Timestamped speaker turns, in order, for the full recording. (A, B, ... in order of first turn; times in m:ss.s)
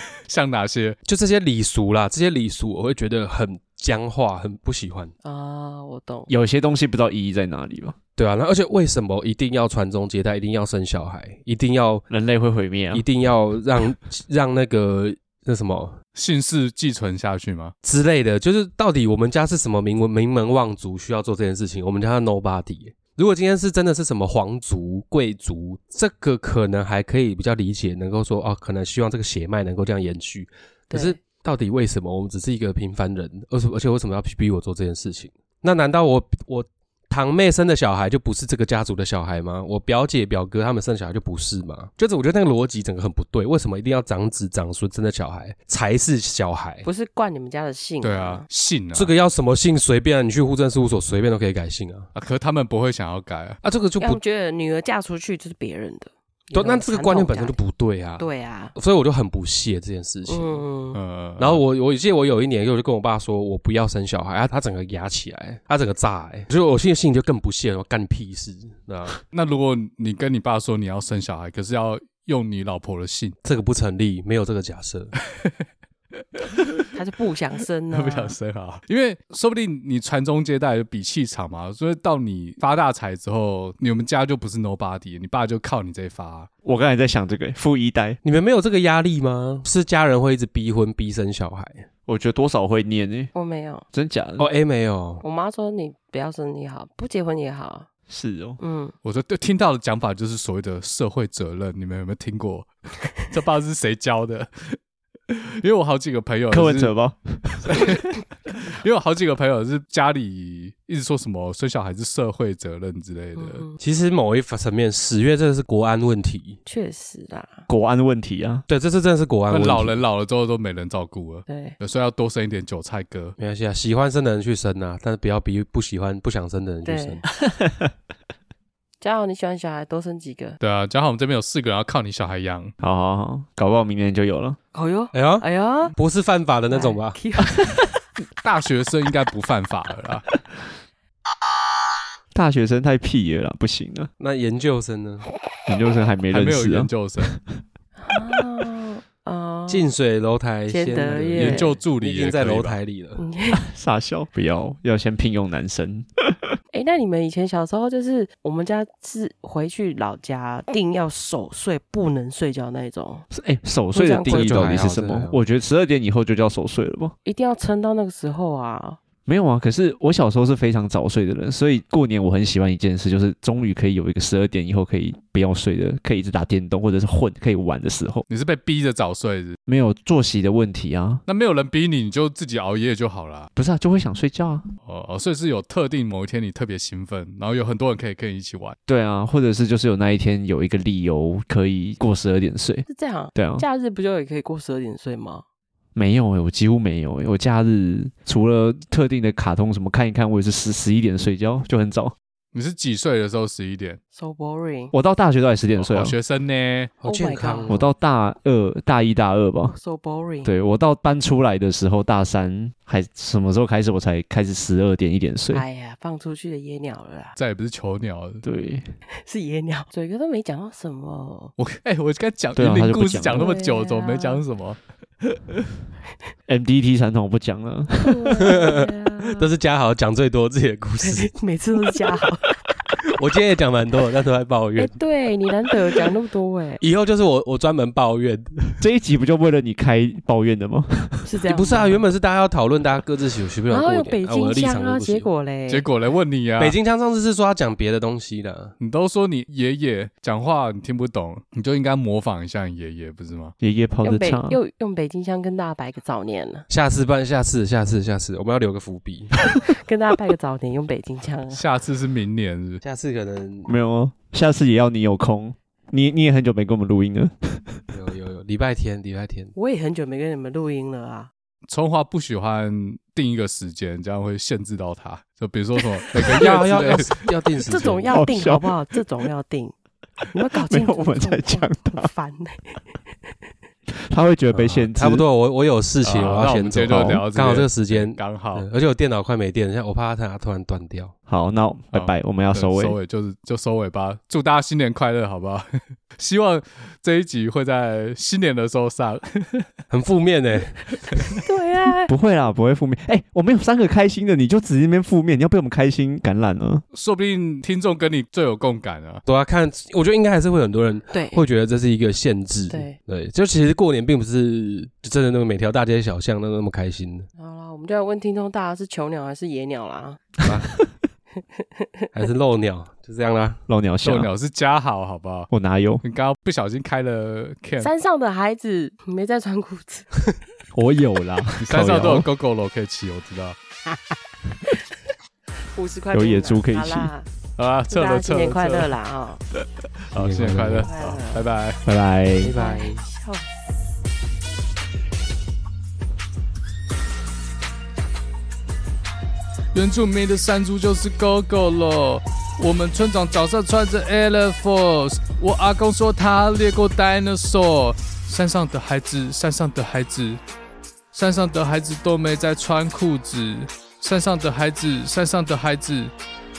0:00.2-0:01.0 A
0:01.0-0:05.1 B
0:05.2-0:06.3 C
0:06.3-0:08.0 D
0:08.2-0:12.0 B
0:12.1-0:13.0 D
0:12.9-0:16.0 B
0:16.1-0:17.7 A
0:17.8-0:46.8 B
0:30.9-0:31.2 C
0:46.8-0:48.4 C
0:48.0-0:49.1 A
0:48.9-0:52.1 B
0:52.1-0:53.6 A
0:53.6-0:54.2 B
0:54.0-0:57.6 C
0:56.5-1:00.6 B
0:58.2-0:58.7 C
1:00.3-1:01.0 C
1:00.9-1:01.6 A
1:01.4-1:09.2 B
1:09.3-1:13.4 A
1:13.4-1:15.1 B
1:16.3-1:16.8 A
1:16.9-1:18.4 C
1:17.9-1:26.5 A
1:26.6-1:28.2 D
1:28.2-1:31.9 B
1:32.1-1:33.3 D
1:33.3-1:33.8 C
1:33.9-1:34.5 D
1:34.4-1:35.2 B
1:35.2-1:37.8 C
1:38.1-1:38.6 D
1:38.6-1:38.9 C
1:39.0-1:44.8 A
1:45.3-1:46.9 A
1:46.5-1:48.0 D
1:47.7-1:53.6 A
1:53.4-1:53.8 C
1:53.8-1:56.6 B
1:56.6-1:57.6 C
1:57.7-1:58.6 D
1:58.7-2:00.0 B
1:59.5-2:03.4 A
2:01.5-2:01.8 C
2:03.4-2:07.2 B
2:06.8-2:07.2 C
2:09.0-2:10.6 C
2:10.6-2:12.7 A
2:12.8-2:14.6 D
2:14.7-2:15.9 C
2:15.1-2:17.2 B
2:16.7-2:17.8 C
2:18.4-2:20.2 A
2:22.3-2:24.1 D
2:24.2-2:25.2 B
2:25.7-2:27.4 D
2:26.3-2:27.3 A
2:28.0-2:29.9 C
2:29.7-2:33.2 B
2:30.7-2:31.7 C
2:31.4-2:32.8 A
2:33.2-2:33.6 C
2:33.5-2:36.1 D
2:36.7-2:43.2 C
2:43.3-2:47.1 D
2:43.9-2:44.8 C
2:44.2-2:45.4 B
2:47.2-2:49.0 C
2:49.2-2:58.2 D
2:58.3-2:59.6 A
2:59.6-3:01.2 D
3:01.2-3:03.5 A
3:03.5-3:04.6 D
3:04.8-3:08.8 A
3:08.9-3:13.6 D
3:12.9-3:15.4 C
3:15.9-3:22.1 D
3:22.5-3:24.0 A
3:24.1-3:24.9 C
3:24.9-3:26.1 D
3:25.8-3:26.9 A
3:27.0-3:27.9 B
3:27.0-3:27.8 C
3:27.7-3:29.7 D
3:29.7-3:30.5 C
3:30.4-3:35.6 D
3:35.5-3:37.3 C
3:37.4-3:38.4 A
3:38.4-3:38.8 D
3:39.1-3:41.5 C
3:41.6-3:44.8 A
3:42.5-3:43.5 D
3:43.3-3:44.4 C
3:46.5-3:48.5 D
3:48.0-3:49.5 C
3:48.4-3:51.3 B
3:51.0-3:52.4 C
3:53.0-3:54.9 B
3:54.8-3:56.8 C
3:56.8-3:58.8 B
3:58.8-4:01.3 D
4:01.2-4:02.0 C
4:01.4-4:05.3 B
4:03.7-4:05.9 C
4:05.7-4:06.8 A
4:06.6-4:08.7 B
4:08.8-4:13.5 A
4:13.6-4:14.6 D
4:14.0-4:16.7 C
4:16.7-4:19.4 B
4:19.6-4:21.6 C
4:21.5-4:22.8 A
4:22.8-4:23.7 B
4:23.6-4:27.8 D
4:27.9-4:29.5 B
4:29.6-4:31.3 C
4:31.7-4:37.2 A
4:36.3-4:38.2 B
4:37.6-4:39.7 C
4:38.1-4:38.7 D
4:40.3-4:42.8 C
4:40.6-4:42.1 D
4:43.9-4:45.2 D
4:44.5-4:51.1 B
4:46.0-4:48.7 A
4:46.9-4:47.2 D
4:51.3-4:53.0 D
4:51.9-4:59.7 A
4:59.9-5:00.8 B
5:01.4-5:02.1 C
5:02.1-5:06.8 D
5:06.9-5:09.2 A
5:09.2-5:17.3 B
5:11.1-5:11.4 C
5:12.7-5:13.0 C
5:17.4-5:20.2 C
5:20.4-5:20.7 B
5:21.8-5:22.1 C
5:22.1-5:23.6 B
5:23.7-5:24.3 D
5:24.0-5:25.5 A
5:25.5-5:26.0 D
5:26.0-5:27.9 A
5:27.8-5:30.1 C
5:30.7-5:32.3 D
5:31.6-5:33.6 A
5:35.7-5:37.3 C
5:36.1-5:37.1 D
5:37.6-5:38.9 A
5:37.9-5:39.4 C
5:39.5-5:41.8 A
5:40.1-5:40.9 B
5:40.7-5:41.4 C
5:41.8-5:42.5 D
5:42.4-5:43.0 B
5:42.5-5:43.5 C
5:49.7-6:00.4 A
6:01.1-6:06.1 A